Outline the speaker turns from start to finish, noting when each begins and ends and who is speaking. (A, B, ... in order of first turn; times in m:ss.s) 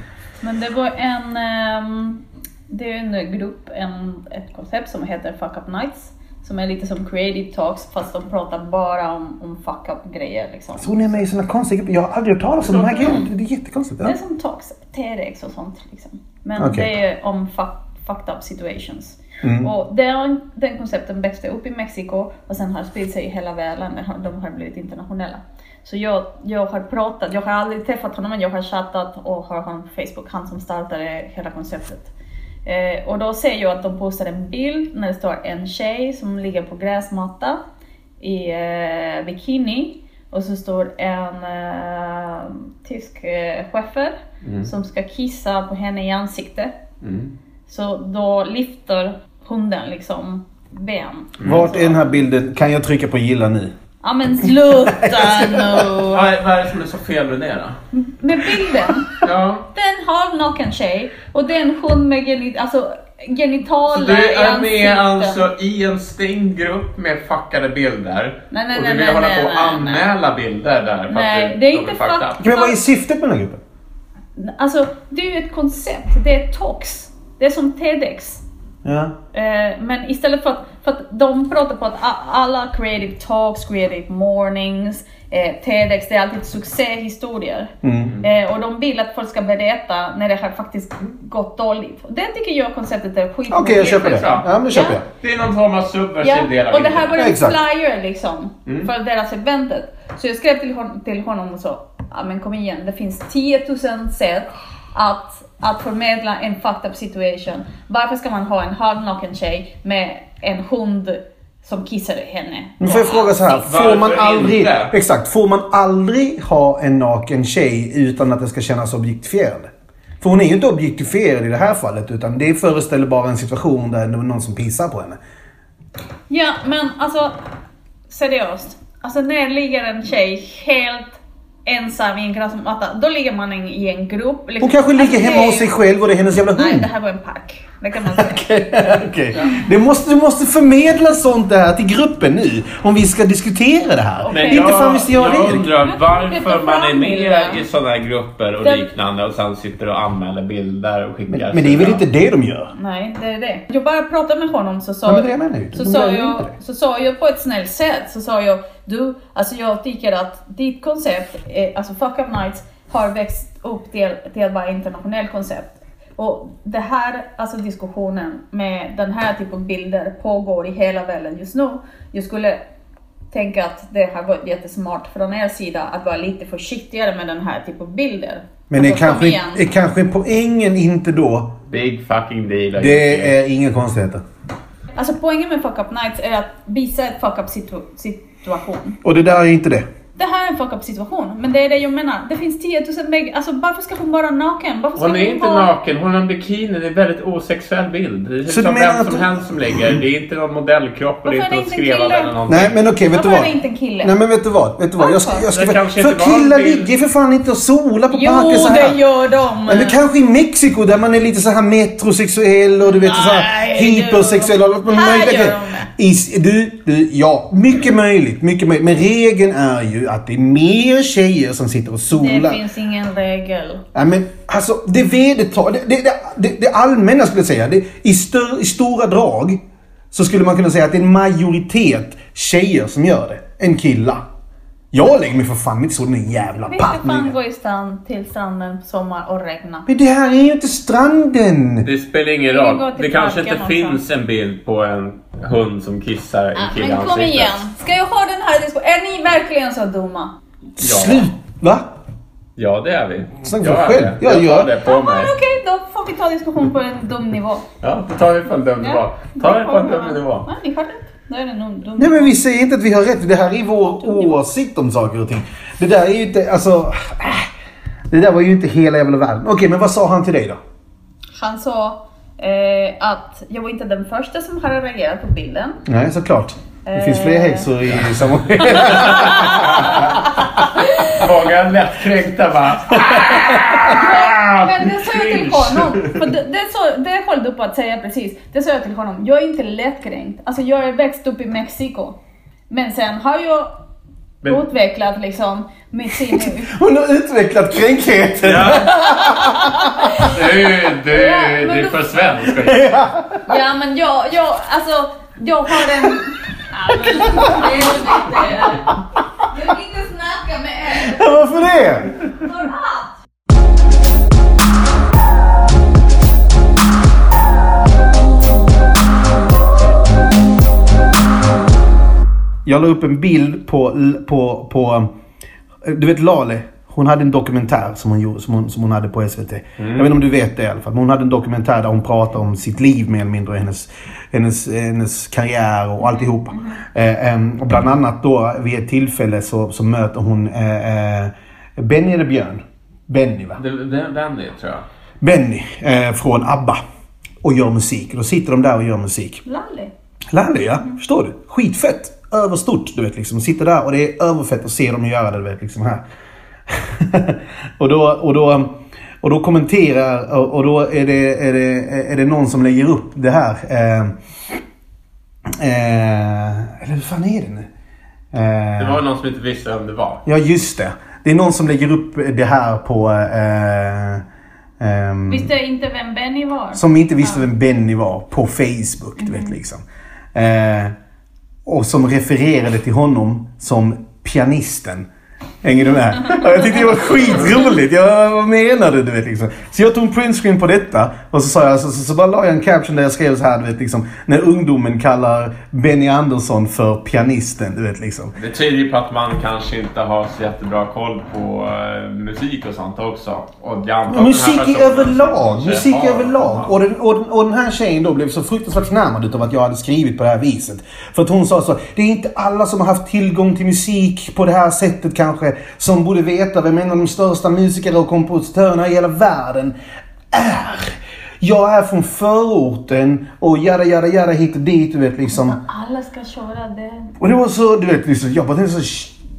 0:00.4-0:11.2 A
0:10.8-0:14.1 B
0:12.6-0:13.2 C
0:13.0-0:13.3 A
0:14.0-0:32.1 A
0:16.6-0:16.9 B
0:19.4-0:19.7 B
0:32.6-0:37.6 A
0:38.2-0:46.7 A
0:44.4-0:44.7 C
0:47.0-0:47.3 C
0:47.7-0:52.1 A
0:51.4-0:51.6 C
0:51.4-0:53.7 B
0:54.0-0:56.2 A
0:54.7-0:56.0 B
0:56.0-0:57.8 C
0:57.9-0:59.2 A
0:58.6-0:58.9 B
0:59.2-0:59.6 C
0:59.7-1:05.4 A
1:03.9-1:12.4 C
1:08.5-1:10.1 A
1:11.1-1:12.8 A
1:12.4-1:13.6 B
1:14.4-1:18.4 A
1:18.8-1:19.1 B
1:19.3-1:35.0 A
1:27.8-1:28.2 B
1:33.5-1:35.0 B
1:33.7-1:34.5 C
1:35.0-1:37.3 C
1:36.2-1:53.4 A
1:37.2-1:37.6 B
1:52.8-1:59.7 B
1:53.4-1:54.9 C
2:00.2-2:05.2 B
2:06.3-2:07.4 A
2:08.1-2:15.7 A
2:14.6-2:16.9 B
2:16.6-2:18.5 A
2:18.0-2:25.7 B
2:24.2-2:27.6 A
2:24.3-2:32.0 C
2:28.6-2:28.9 A
2:31.3-2:32.7 B
2:32.7-2:52.6 A
2:35.0-2:36.5 B
2:53.3-2:59.6 A
2:58.7-3:01.5 B
3:01.7-3:03.4 C
3:02.8-3:04.2 B
3:05.0-3:09.0 A
3:09.0-3:09.8 B
3:10.2-3:15.7 A
3:15.0-3:22.8 C
3:18.5-3:20.0 B
3:21.2-3:22.3 A
3:22.5-3:29.0 B
3:23.1-3:24.2 A
3:25.0-3:25.5 A
3:25.5-3:26.9 C
3:28.1-3:30.0 A
3:29.6-3:42.6 B
3:32.8-3:35.9 A
3:42.1-3:43.8 A
3:43.9-3:49.6 B
3:50.1-3:54.2 B
3:54.9-3:57.4 B
3:56.6-3:59.9 A
3:59.9-4:01.9 B
4:01.8-4:07.6 C
4:02.5-4:04.0 A
4:06.6-4:10.3 A
4:10.8-4:11.3 C
4:10.8-4:11.9 B
4:12.6-4:15.3 C
4:13.4-4:14.7 B
4:14.8-4:17.6 A
4:17.8-4:20.5 C
4:18.8-4:22.4 A
4:22.0-4:27.5 B
4:24.0-4:24.4 A
4:28.1-4:30.6 B
4:31.4-4:35.8 A
4:35.8-4:40.1 B
4:36.8-4:37.7 A
4:38.7-4:41.2 A
4:38.8-4:39.9 C
4:41.1-4:46.2 C
4:43.3-4:52.2 A
4:52.7-4:53.7 A
4:54.4-4:56.7 A
4:56.2-5:00.3 B
4:58.4-4:59.0 C
4:58.8-5:02.1 A
5:00.2-5:03.0 C
5:02.5-5:03.4 B
5:03.4-5:11.8 A
5:07.0-5:07.8 B
5:10.9-5:12.1 B
5:12.4-5:13.2 A
5:22.6-5:25.1 B
5:25.8-5:43.6 B
5:29.8-5:30.1 C
5:36.0-5:36.8 A
5:43.6-5:44.8 C
5:45.2-5:46.8 B
5:47.4-5:49.4 B
5:49.4-5:49.9 A
5:50.3-5:56.0 B
5:56.7-6:04.1 B
6:05.6-6:07.7 B
6:08.3-6:09.0 B
6:08.8-6:10.2 C
6:10.2-6:14.2 B
6:14.8-6:15.5 B
6:15.3-6:17.5 A
6:16.7-6:19.8 B
6:19.2-6:19.6 A
6:20.3-6:20.9 B
6:21.6-6:25.1 B
6:25.6-6:38.3 B
6:38.4-6:46.7 C
6:44.1-6:59.7 B
7:00.3-7:05.6 B
7:05.3-7:07.1 A
7:07.2-7:09.2 B